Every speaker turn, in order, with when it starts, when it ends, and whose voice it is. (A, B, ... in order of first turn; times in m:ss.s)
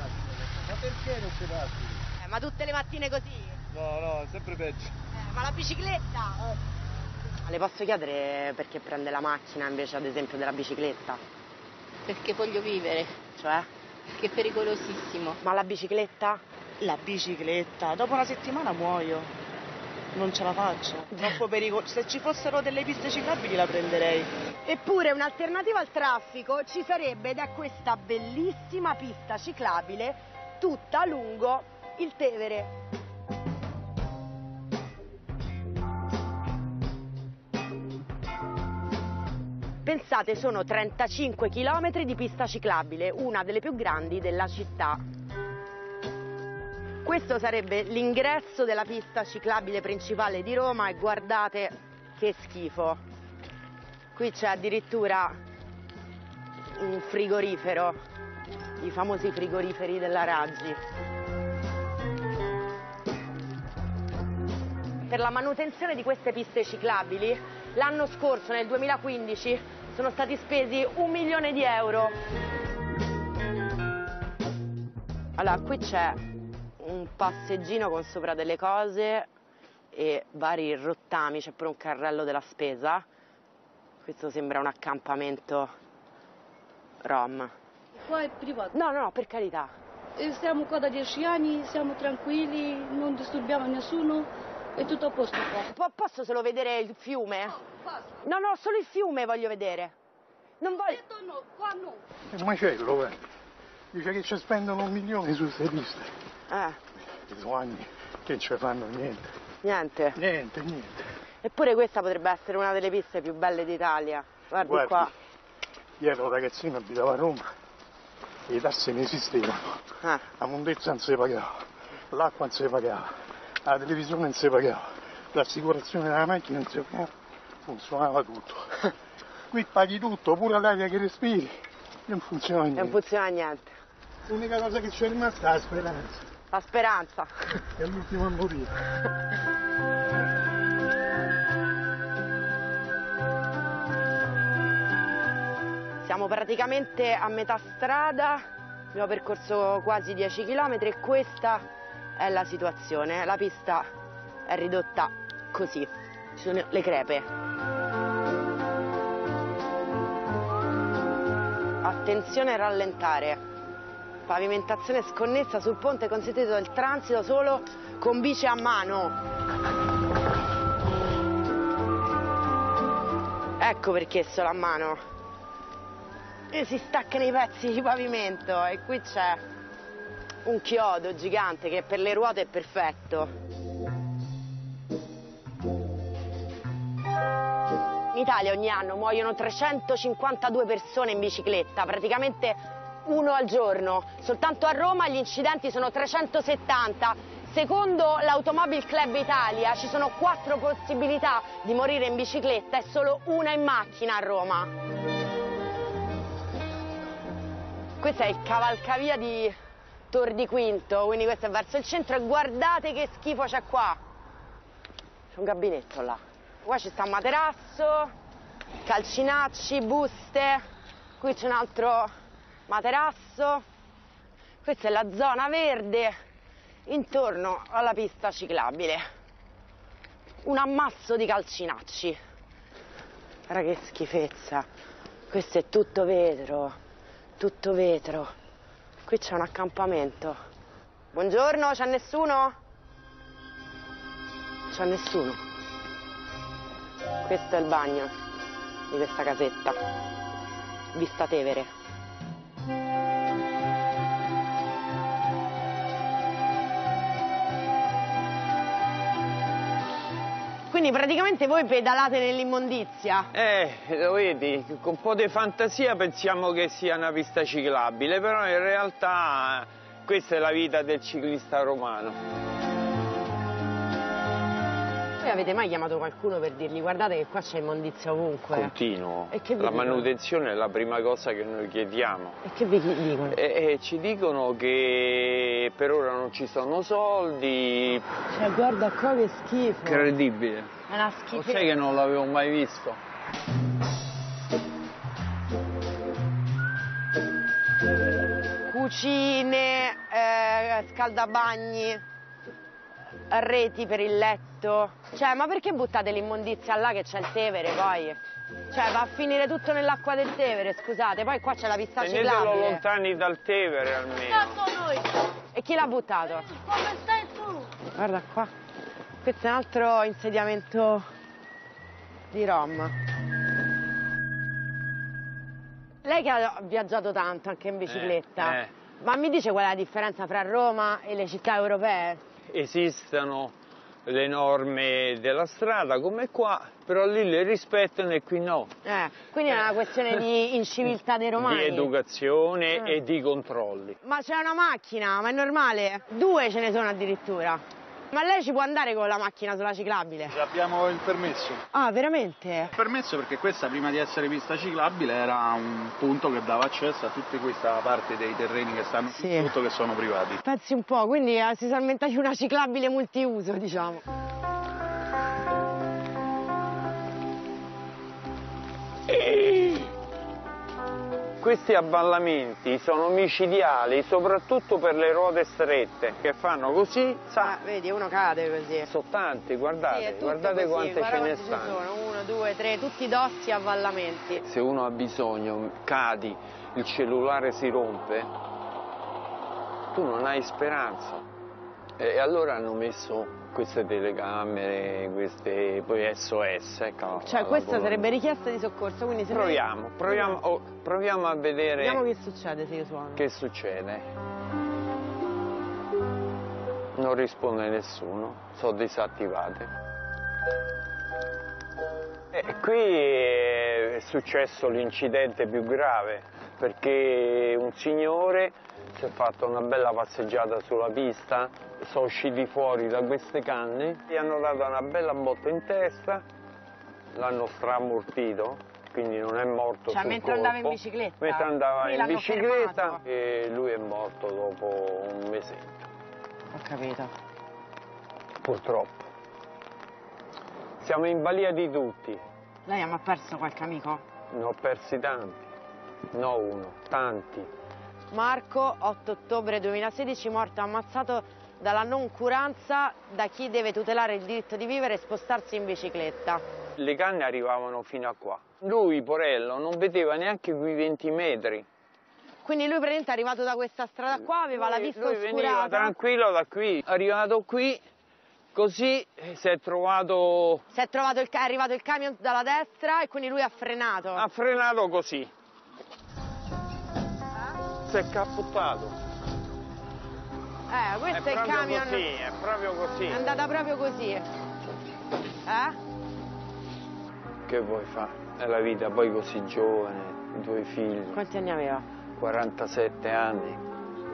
0:00.9-0:01.1 A
0:02.2-0:03.6 B
0:03.7-0:04.9 A
0:05.1-0:06.5 B
0:07.4-0:11.2 B
0:12.0-0:13.2 C
0:13.4-0:13.7 B
0:14.2-0:15.4 C
0:15.4-0:16.4 B
0:16.8-0:19.3 D
0:20.1-0:24.3 D
0:21.1-0:21.4 B
0:24.6-0:32.7 B
0:39.8-0:45.0 B
0:47.0-0:53.0 B
0:54.1-0:55.3 B
0:56.8-0:58.0 B
0:58.8-1:00.8 B
1:05.0-1:12.2 B
1:15.4-1:16.2 B
1:16.8-1:19.3 B
1:19.9-1:23.0 B
1:24.0-1:25.7 B
1:27.0-1:27.5 B
1:28.0-1:28.7 E
1:28.7-1:29.7 B
1:30.2-1:35.6 E
1:35.4-1:37.6 B
1:38.2-1:39.9 B
1:40.6-1:41.2 B
1:41.1-1:42.0 E
1:42.3-1:43.2 F
1:43.9-1:46.1 F
1:46.5-1:46.8 B
1:47.3-1:49.3 F
1:49.6-1:50.2 B
1:50.2-1:51.0 F
1:51.4-1:55.1 B
1:54.6-1:55.1 F
1:56.0-1:57.5 F
1:58.5-2:03.1 F
2:00.0-2:00.2 B
2:03.6-2:07.1 F
2:07.6-2:08.9 F
2:09.5-2:13.0 F
2:12.8-2:13.7 B
2:14.3-2:16.2 F
2:16.5-2:17.6 B
2:17.7-2:18.8 F
2:26.0-2:28.4 B
2:28.9-2:31.6 B
2:32.2-2:33.9 B
2:34.4-2:37.2 B
2:41.8-2:43.4 B
2:44.2-2:49.2 B
2:53.6-2:55.0 B
2:56.5-2:59.4 B
3:00.4-3:03.3 B
3:08.1-3:24.7 B
3:28.0-3:29.5 B
3:30.1-3:34.0 B
3:35.3-3:38.1 B
3:38.8-3:40.6 B
3:41.2-3:42.1 B
3:42.7-3:43.6 B
3:44.6-3:46.1 B
3:46.8-3:49.0 B
3:50.4-3:52.2 B
3:53.5-3:54.7 B
3:55.3-3:56.8 B
3:57.4-3:58.3 B
3:59.0-4:00.4 B
4:01.1-4:02.5 B
4:04.7-4:05.4 B
4:07.2-4:08.1 B
4:08.9-4:09.8 B
4:10.9-4:11.7 B
4:20.7-4:23.3 B
4:23.3-4:32.2 G
4:35.2-4:38.7 B
4:38.5-4:42.4 G
4:39.3-4:40.1 B
4:42.4-4:43.4 B
4:43.3-4:48.0 G
4:48.3-4:50.1 B
4:49.8-4:50.7 G
4:50.9-4:51.7 B
4:51.3-4:53.0 G
4:58.7-5:02.0 B
5:03.3-5:08.2 B
5:08.7-5:12.8 B
5:12.0-5:14.8 G
5:15.5-5:16.9 B
5:16.7-5:17.6 E
5:17.8-5:18.5 B
5:19.2-5:21.0 B
5:22.3-5:22.9 B
5:26.0-5:32.2 B
5:27.9-5:28.7 G
5:32.5-5:33.5 G
5:34.0-5:38.7 G
5:38.8-5:41.9 B
5:41.4-5:44.0 G
5:44.0-5:50.4 B
5:50.3-5:51.6 A
5:51.7-5:52.7 B
5:52.7-6:00.4 A
5:59.1-5:59.5 B
6:00.4-6:04.0 B
6:09.1-6:09.9 G
6:11.4-6:17.6 G
6:17.4-6:18.9 B
6:18.8-6:21.8 G
6:19.9-6:24.4 B
6:24.4-6:28.3 G
6:29.9-6:31.2 G
6:32.0-6:38.1 G
6:37.2-6:40.4 B
6:39.3-6:42.0 G
6:41.8-6:43.2 B
6:43.1-6:44.0 G
6:46.9-6:49.7 G
6:52.3-7:06.2 G
7:07.1-7:15.9 G
7:09.9-7:13.0 B
7:16.5-7:17.1 B
7:18.4-7:19.0 G
7:20.8-7:22.2 G
7:22.6-7:24.0 B
7:24.3-7:25.5 G
7:26.1-7:27.5 G
7:28.1-7:36.4 B
7:36.8-7:41.6 G
7:42.4-7:46.0 B
7:44.2-7:47.8 G
7:48.5-7:50.6 G
7:50.7-7:54.2 B
7:54.1-7:55.3 G
7:57.8-7:59.0 G
8:00.7-8:02.1 B
8:01.1-8:03.2 G
8:03.1-8:04.2 B
8:05.4-8:05.8 B
8:07.4-8:11.2 G
8:11.1-8:11.8 B
8:12.2-8:13.6 G